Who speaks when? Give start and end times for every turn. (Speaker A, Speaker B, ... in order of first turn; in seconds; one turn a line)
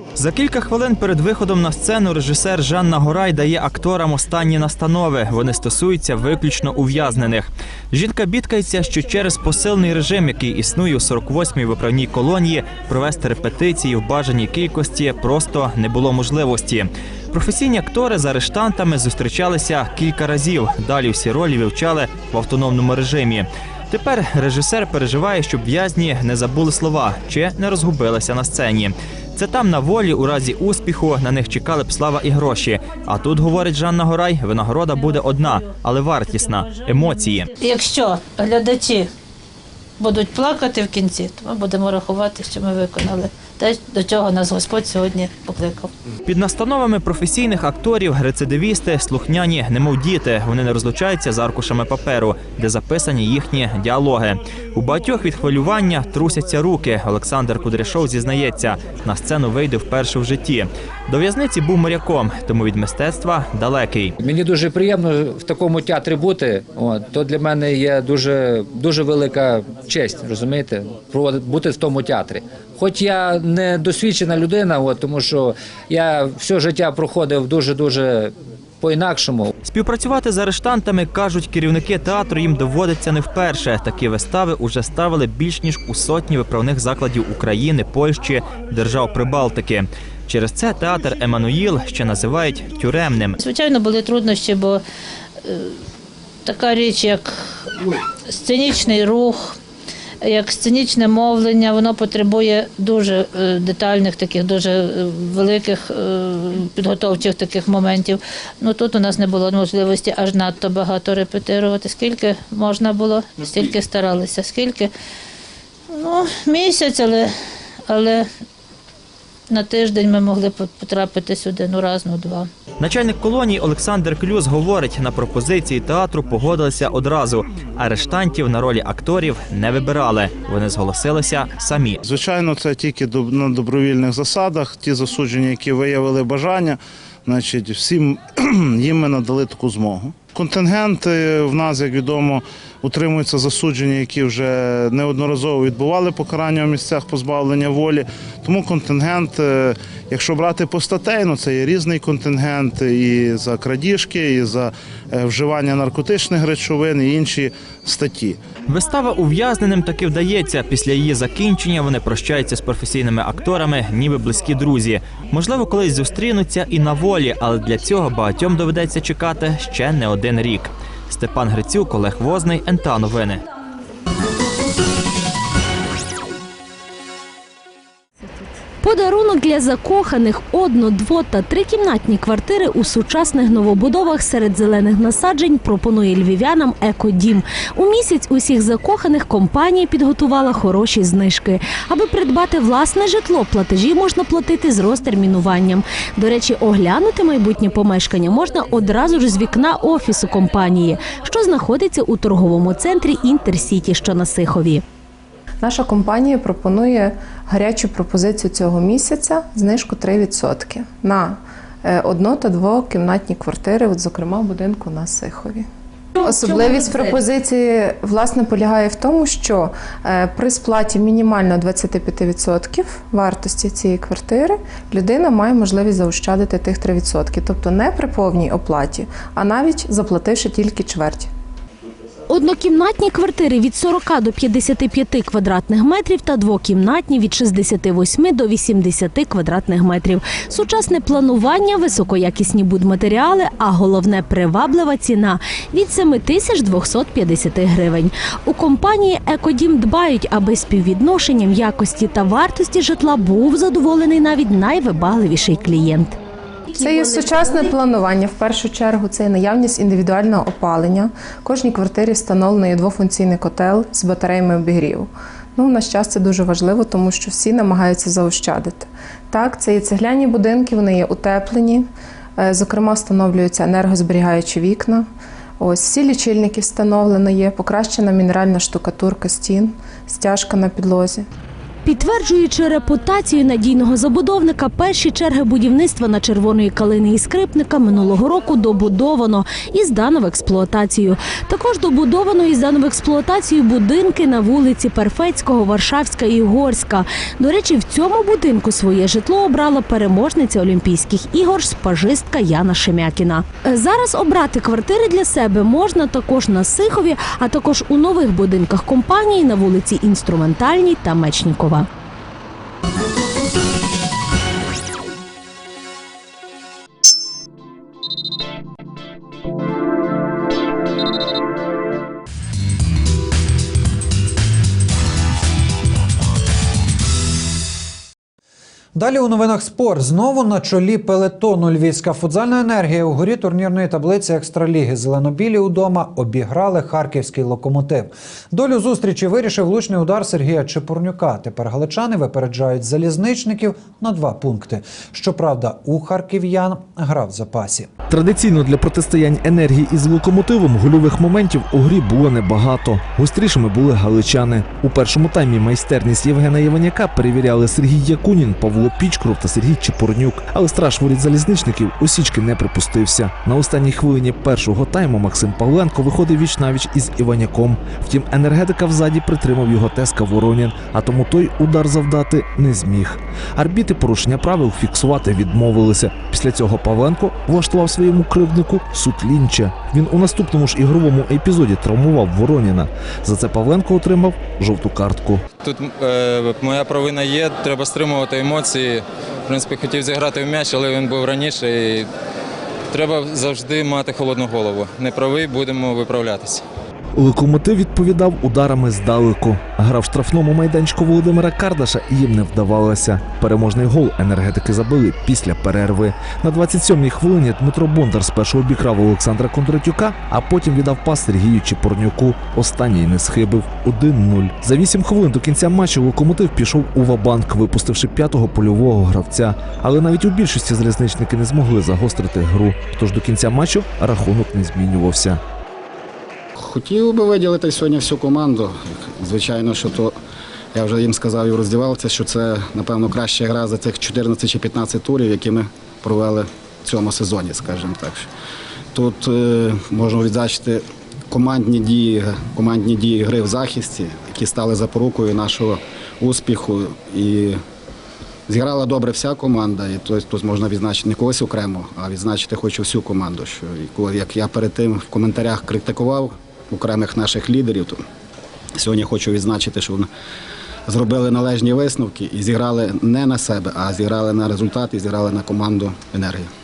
Speaker A: 0.2-37.5
Speaker B: 36.3-39.1
Speaker B: 40.0-45.9
Speaker A: 46.3-64.1
Speaker C: 64.2-79.5
Speaker A: 79.7-93.4
Speaker B: 93.4-94.8
Speaker B: 95.4-95.8
Speaker B: 96.5-97.7
Speaker B: 98.3-99.6
Speaker B: 100.2-114.9
Speaker B: 115.9-117.3
Speaker B: 117.9-118.3
Speaker B: 119.5-122.5
Speaker A: 122.8-132.0
Speaker D: 132.0-158.4
Speaker A: 158.7-173.4
Speaker E: 178.8-204.8
Speaker F: 205.6-215.7
Speaker F: 216.2-231.3
Speaker E: 232.3-256.2
Speaker F: 256.8-275.1
Speaker F: 275.6-281.3
Speaker E: 281.9-311.9
Speaker G: 328.9-347.9
Speaker H: 348.1-385.4
Speaker I: 385.6-392.1
Speaker I: 392.9-396.6
Speaker H: 397.1-425.4
Speaker J: 426.6-430.1
Speaker J: 430.7-438.3
Speaker J: 438.9-447.6
Speaker J: 448.5-458.0
Speaker J: 458.8-460.1
Speaker J: 460.9-466.5